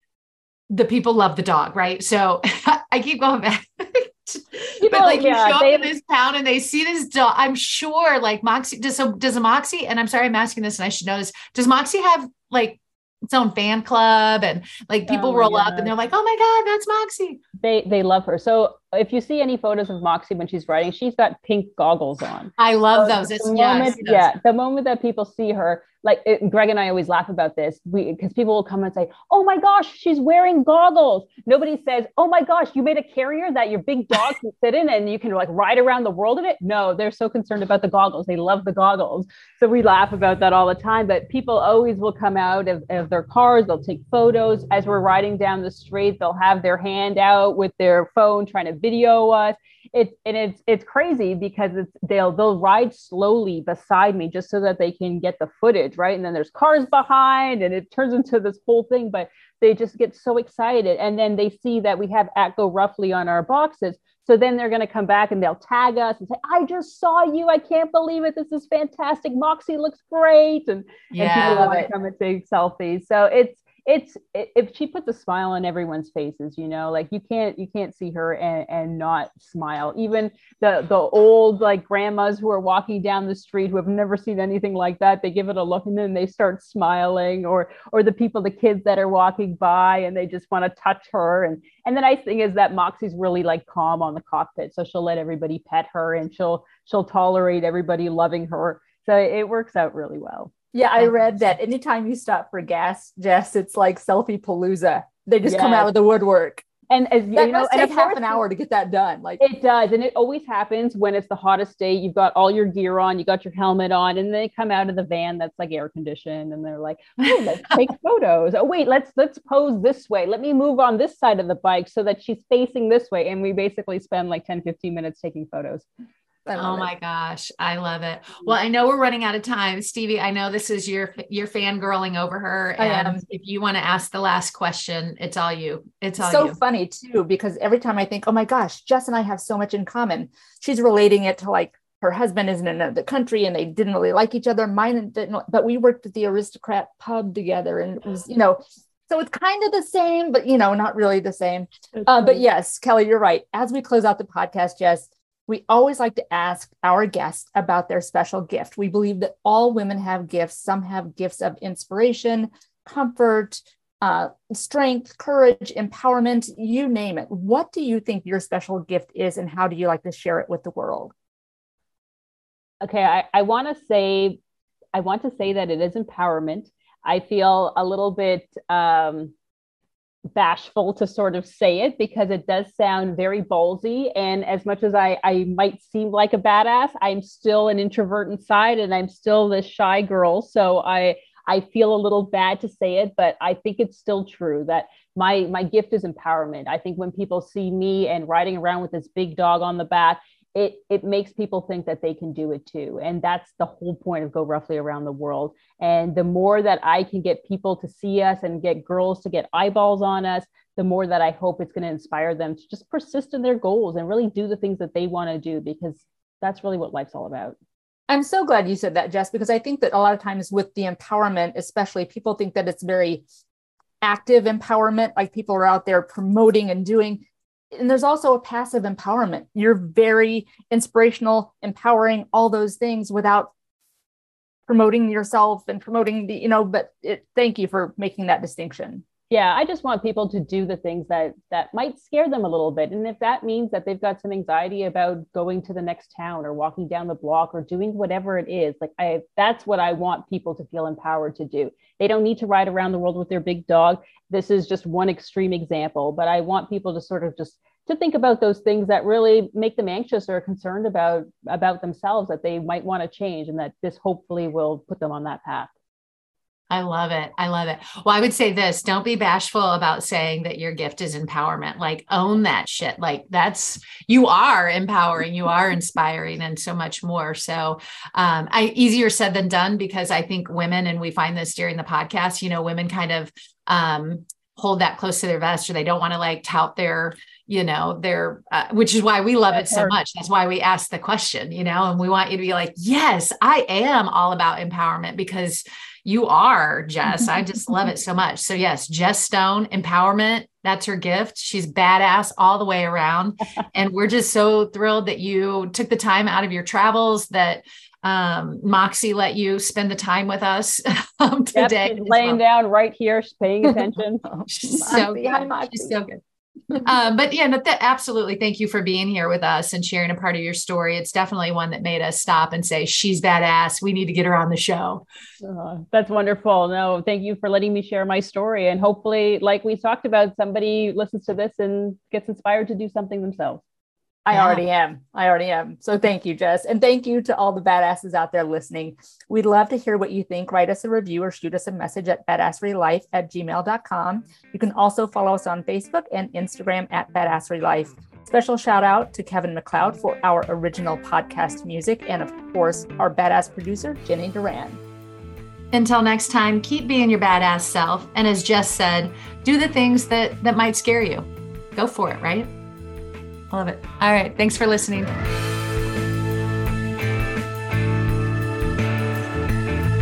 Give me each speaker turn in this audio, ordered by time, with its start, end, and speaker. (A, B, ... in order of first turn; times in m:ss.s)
0:00.7-0:17.4 A
0:04.8-0:05.9 B
0:15.1-0:15.9 B
0:17.6-1:41.1 B
0:22.6-0:24.3 A
1:11.1-1:11.8 A
1:11.4-1:11.9 C
1:40.7-1:46.6 C
1:45.4-1:45.9 B
1:46.9-1:48.4 B
1:47.4-1:49.4 C
1:49.4-2:05.9 B
2:06.5-2:06.9 C
2:06.6-2:16.6 A
2:12.8-2:13.2 C
2:16.2-2:51.1 C
2:52.8-2:54.4 B
2:54.9-2:59.3 B
3:00.4-3:37.6 B
3:38.1-3:43.2 C
3:44.0-3:53.5 C
3:54.7-3:59.0 C
3:59.3-4:25.7 B
4:26.7-5:12.4 A
4:49.5-4:50.0 B
5:11.5-5:15.0 B
5:14.4-5:16.0 C
5:14.5-5:16.2 A
5:16.7-5:25.0 A
5:25.4-5:33.6 B
5:34.3-5:54.8 C
5:55.7-6:02.5 A
6:03.5-6:05.1 A